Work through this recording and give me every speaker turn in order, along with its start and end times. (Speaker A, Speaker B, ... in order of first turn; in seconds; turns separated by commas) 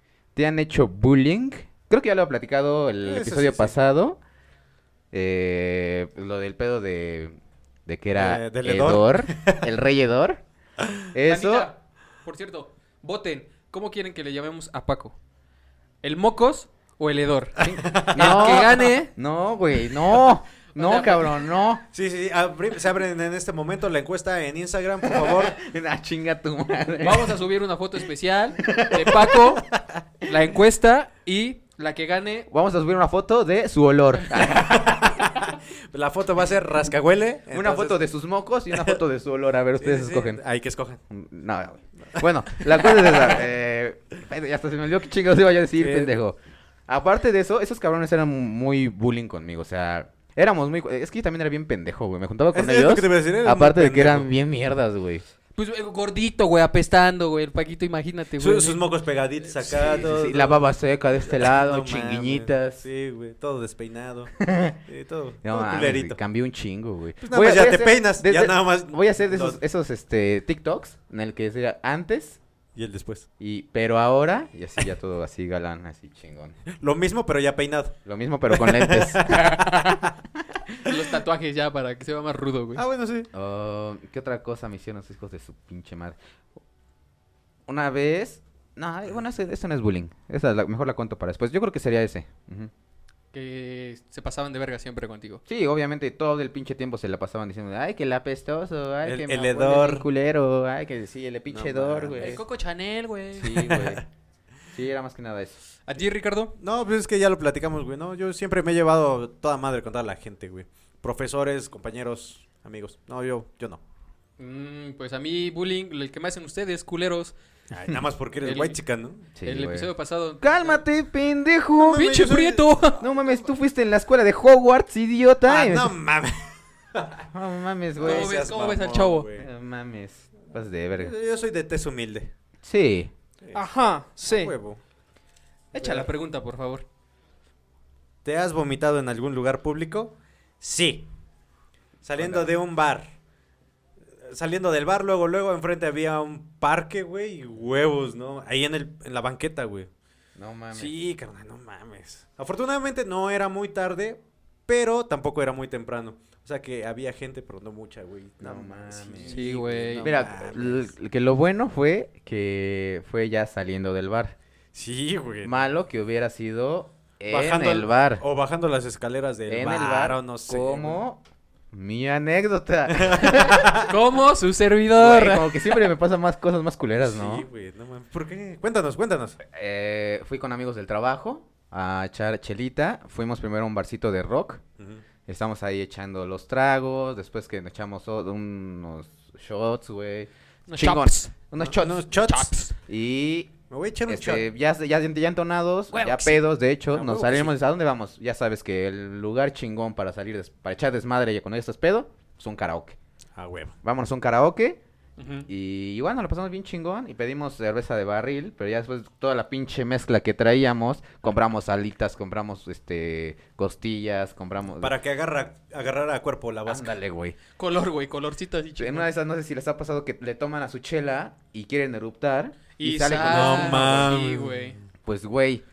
Speaker A: 0.3-4.2, Speaker B: 3.0-3.9, Speaker A: 5.1-10.4, Speaker B: 8.2-9.7, Speaker A: 11.1-11.7, Speaker C: 11.3-15.2, Speaker C: 16.0-19.1, Speaker A: 17.6-21.8, Speaker B: 17.8-18.9, Speaker C: 20.7-21.5, Speaker B: 21.9-25.6, Speaker A: 25.1-27.3, Speaker C: 27.0-29.7, Speaker A: 28.6-29.4, Speaker C: 30.2-32.5, Speaker A: 32.5-35.1, Speaker B: 34.6-35.3, Speaker B: 35.9-38.1, Speaker A: 37.5-40.4, Speaker B: 38.7-39.0, Speaker B: 39.8-41.0, Speaker A: 41.1-46.4, Speaker B: 42.1-43.4, Speaker B: 45.8-46.2, Speaker A: 46.9-55.2, Speaker B: 52.5-54.3, Speaker C: 55.6-58.9, Speaker B: 58.4-66.2, Speaker C: 59.5-59.9, Speaker A: 59.7-62.9, Speaker A: 64.4-64.8, Speaker A: 65.4-72.4, Speaker B: 67.2-69.6, Speaker B: 72.8-73.3, Speaker A: 73.4-76.6, Speaker B: 76.7-79.4, Speaker A: 78.0-79.6, Speaker C: 79.3-80.0, Speaker C: 80.8-82.8, Speaker B: 82.8-83.3, Speaker A: 83.3-86.2, Speaker A: 87.7-92.7, Speaker C: 93.3-95.4, Speaker A: 95.5-102.4, Speaker B: 99.0-100.1, Speaker B: 101.5-102.4, Speaker C: 102.2-103.7, Speaker A: 103.4-104.0, Speaker B: 103.4-104.0, Speaker A: 104.7-105.6, Speaker C: 105.9-106.5, Speaker B: 106.6-113.8, Speaker C: 114.4-117.4, Speaker B: 117.7-119.2, Speaker C: 118.4-120.8, Speaker A: 119.4-122.0, Speaker B: 121.8-123.5, Speaker C: 122.0-123.0, Speaker A: 123.0-126.0, Speaker B: 125.5-127.3, Speaker A: 127.3-128.4, Speaker B: 128.0-129.5, Speaker C: 128.0-129.3, Speaker A: 129.4-131.1, Speaker B: 130.9-132.3, Speaker A: 132.6-133.1, Speaker C: 133.5-134.5, Speaker B: 134.2-134.8, Speaker C: 135.7-136.8, Speaker B: 135.8-136.1, Speaker B: 138.2-141.1, Speaker B: 142.0-143.1, Speaker A: 142.2-142.5, Speaker B: 144.2-149.9, Speaker A: 150.4-150.9, Speaker B: 150.7-160.9, Speaker A: 158.4-159.5, Speaker C: 159.3-160.1, Speaker A: 160.0-164.4, Speaker B: 164.7-165.7, Speaker A: 165.4-168.2, Speaker B: 167.3-171.0, Speaker A: 169.5-171.2, Speaker A: 171.7-173.7, Speaker B: 172.9-173.9, Speaker C: 173.8-175.8, Speaker A: 174.9-177.5, Speaker B: 177.0-179.4, Speaker A: 179.4-184.6, Speaker B: 184.8-185.0, Speaker A: 185.3-192.1, Speaker C: 190.7-191.3, Speaker B: 191.6-192.6, Speaker C: 192.1-192.8, Speaker A: 192.9-193.5, Speaker B: 193.7-194.5, Speaker A: 194.1-203.0, Speaker C: 195.9-196.4, Speaker B: 196.9-197.6, Speaker B: 203.4-203.8, Speaker A: 203.8-204.8, Speaker C: 205.2-205.5, Speaker A: 205.5-214.9, Speaker B: 214.8-217.0, Speaker A: 216.7-217.4, Speaker C: 217.6-219.1, Speaker A: 218.8-224.0, Speaker C: 222.8-224.8, Speaker B: 223.2-224.8, Speaker A: 225.0-225.6